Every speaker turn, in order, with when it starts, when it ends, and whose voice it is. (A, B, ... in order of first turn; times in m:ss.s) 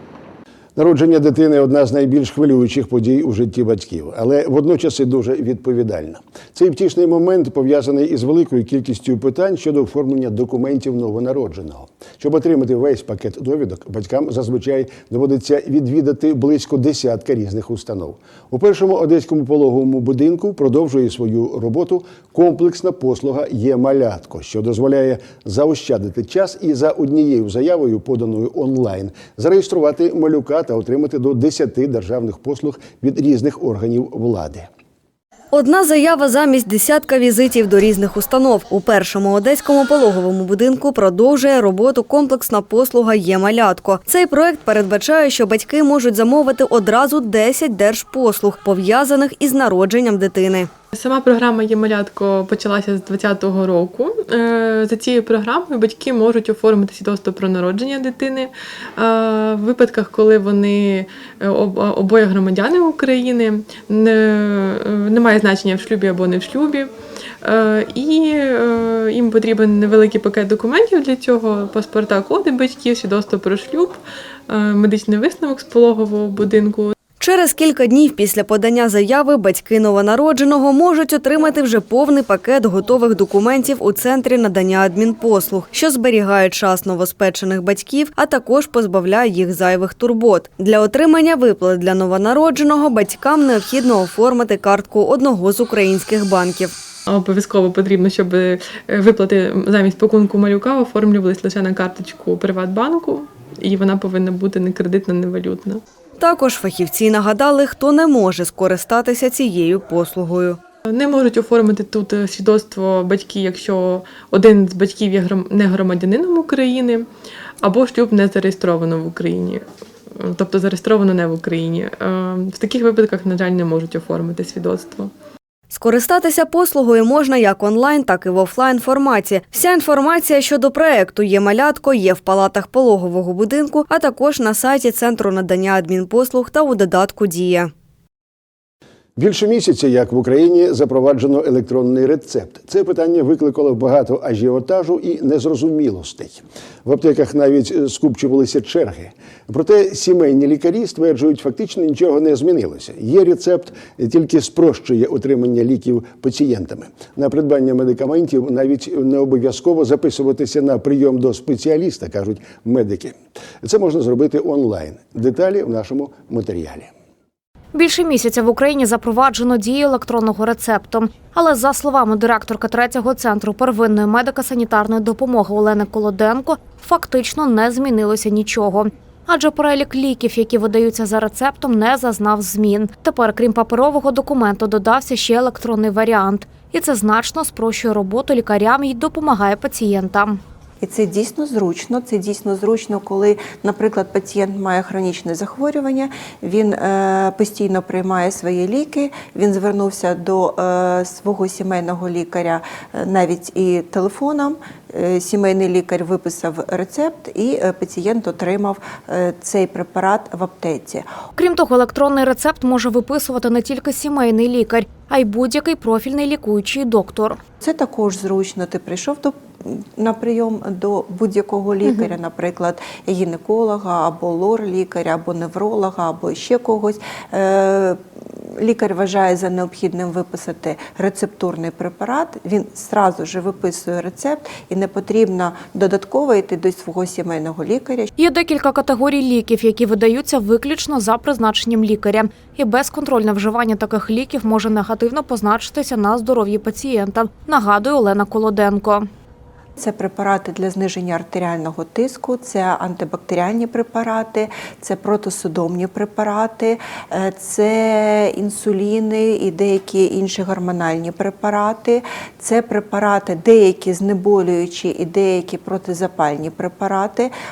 0:00.8-0:34.7 A
0:35.5-0:50.7 B
0:50.9-1:16.9 C
1:17.2-1:36.7 B
1:37.1-1:45.8 C
1:46.2-1:50.6 B
1:50.9-1:57.1 C
1:57.6-2:05.1 C
2:05.7-2:17.7 B
2:19.2-2:46.9 A
2:47.7-3:10.4 D
3:10.8-3:31.1 E
3:31.4-3:37.4 D
3:37.6-3:58.1 E
3:58.2-4:09.1 D
4:09.8-4:27.3 E